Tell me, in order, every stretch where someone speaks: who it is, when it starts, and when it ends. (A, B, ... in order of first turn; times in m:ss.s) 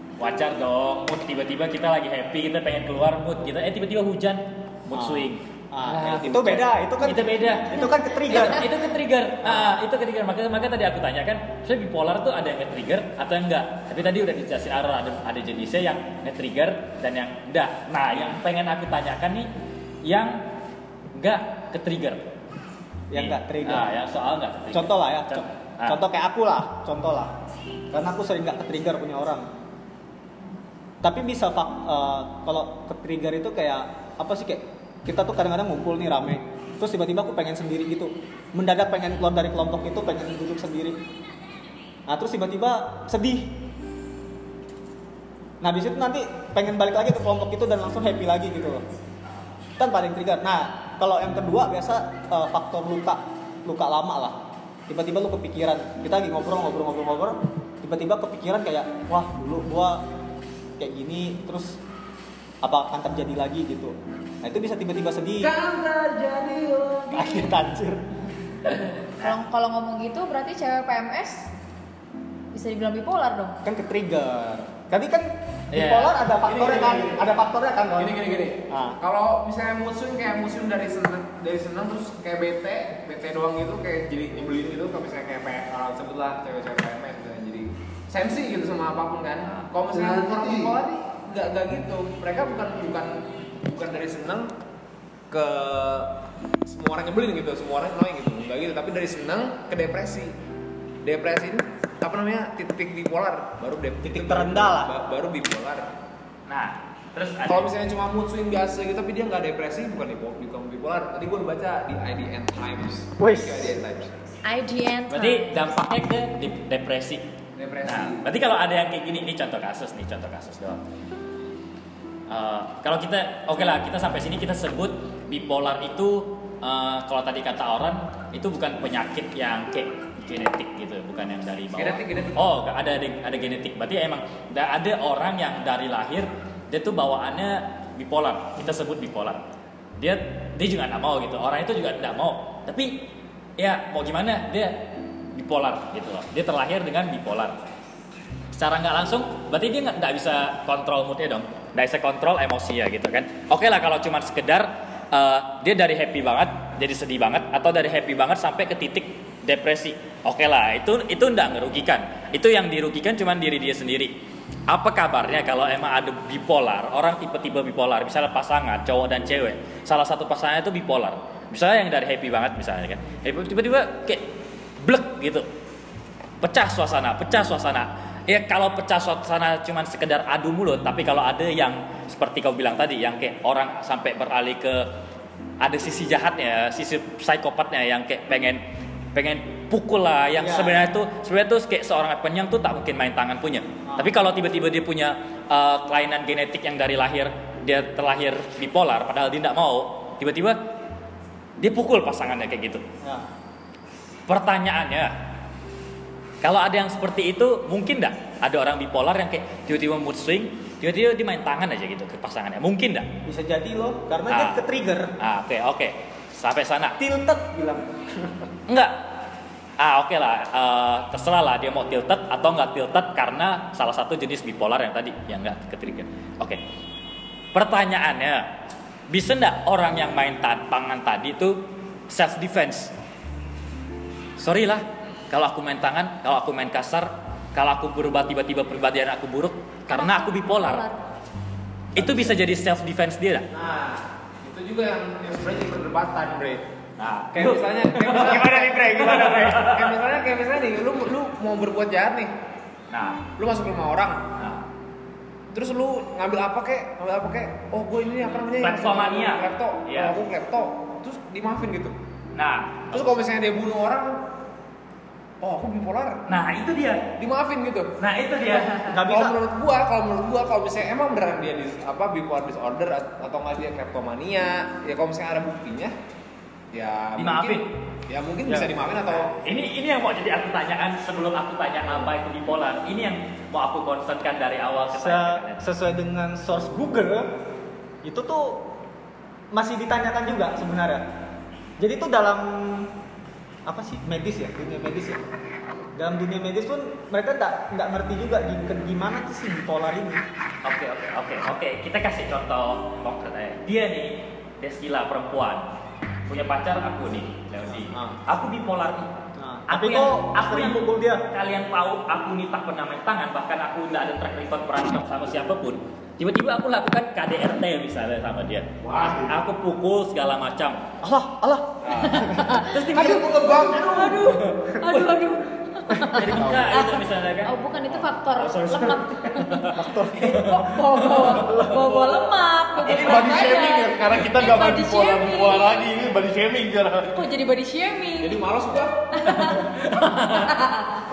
0:00.2-0:19.5 A
0:04.9-0:08.8 B
0:09.4-0:09.8 B
0:20.0-0:20.4 A
0:21.2-0:22.4 A
0:23.1-0:23.9 B
0:23.1-0:26.0 A
0:24.7-0:27.3 B
0:27.9-0:29.5 B
0:31.0-0:41.0 B
0:42.1-0:43.6 B
0:45.6-0:48.8 B
0:49.8-1:00.0 B
1:00.8-1:01.8 B
1:02.6-1:05.5 B
1:05.4-1:07.5 C
1:07.1-1:08.0 B
1:09.1-1:11.5 D
1:12.5-1:13.6 D
1:13.6-1:19.0 B
1:15.7-1:16.2 A
1:16.4-1:17.3 C
1:18.0-1:34.5 C
1:29.9-1:30.8 E
1:35.3-1:36.1 C
1:36.6-1:40.3 C
1:41.0-1:45.9 C
1:44.0-1:44.9 B
1:46.5-1:47.7 A
1:47.5-1:54.1 C
1:53.2-1:53.7 B
1:54.4-1:55.5 D
1:55.1-1:57.2 A
1:57.6-1:58.2 C
1:57.8-2:00.8 A
2:02.3-2:19.4 A
2:11.7-2:12.4 C
2:20.0-2:27.6 A
2:28.5-2:44.1 A
2:44.7-2:54.2 A
2:54.8-2:55.5 A
2:56.4-3:04.9 A
3:05.6-3:08.6 A
3:09.1-3:20.6 A
3:10.4-3:10.9 B
3:13.9-3:14.2 B
3:21.6-3:22.8 A
3:24.3-3:25.2 A
3:26.4-3:33.1 A
3:33.2-3:35.1 B
3:34.3-3:34.6 A
3:35.2-3:37.0 A
3:37.0-3:38.5 B
3:38.7-3:39.1 A
3:39.8-3:46.6 A
3:47.5-3:48.5 A
3:49.1-3:52.9 A
3:54.4-4:00.8 A
3:59.9-4:01.0 D
4:01.9-4:03.5 A
4:02.0-4:02.3 C
4:03.5-4:06.6 C
4:07.0-4:10.0 A
4:07.3-4:12.3 C
4:08.2-4:09.5 B
4:12.9-4:13.2 A
4:13.4-4:14.3 C
4:14.4-4:14.6 A
4:15.5-4:22.0 C
4:18.6-4:20.2 A
4:22.3-4:23.0 A
4:22.9-4:24.2 C
4:25.4-4:26.2 C
4:26.3-4:27.2 A
4:27.2-4:35.9 C
4:28.0-4:29.0 A
4:28.8-4:29.4 B
4:36.7-4:39.3 C
4:37.2-4:37.7 A
4:38.4-4:38.7 B
4:39.3-4:45.6 A
4:45.0-4:47.3 B
4:48.0-4:48.7 B
4:49.5-4:51.0 B
4:51.8-4:52.9 B
4:53.6-4:55.2 B
4:55.9-5:00.2 B
5:00.6-5:05.6 A
5:06.3-5:09.1 A
5:07.9-5:08.2 B
5:09.4-5:11.3 B
5:09.7-5:20.9 A
5:18.8-5:19.3 E
5:21.0-5:22.5 B
5:21.8-5:25.1 A
5:22.0-5:35.9 D
5:22.9-5:24.2 E
5:26.1-5:31.7 A
5:26.2-5:26.7 E
5:29.6-5:30.6 B
5:32.8-5:37.2 E
5:37.1-5:38.4 D
5:38.2-5:39.0 C
5:39.1-5:39.6 D
5:39.2-5:40.7 A
5:40.3-5:41.0 D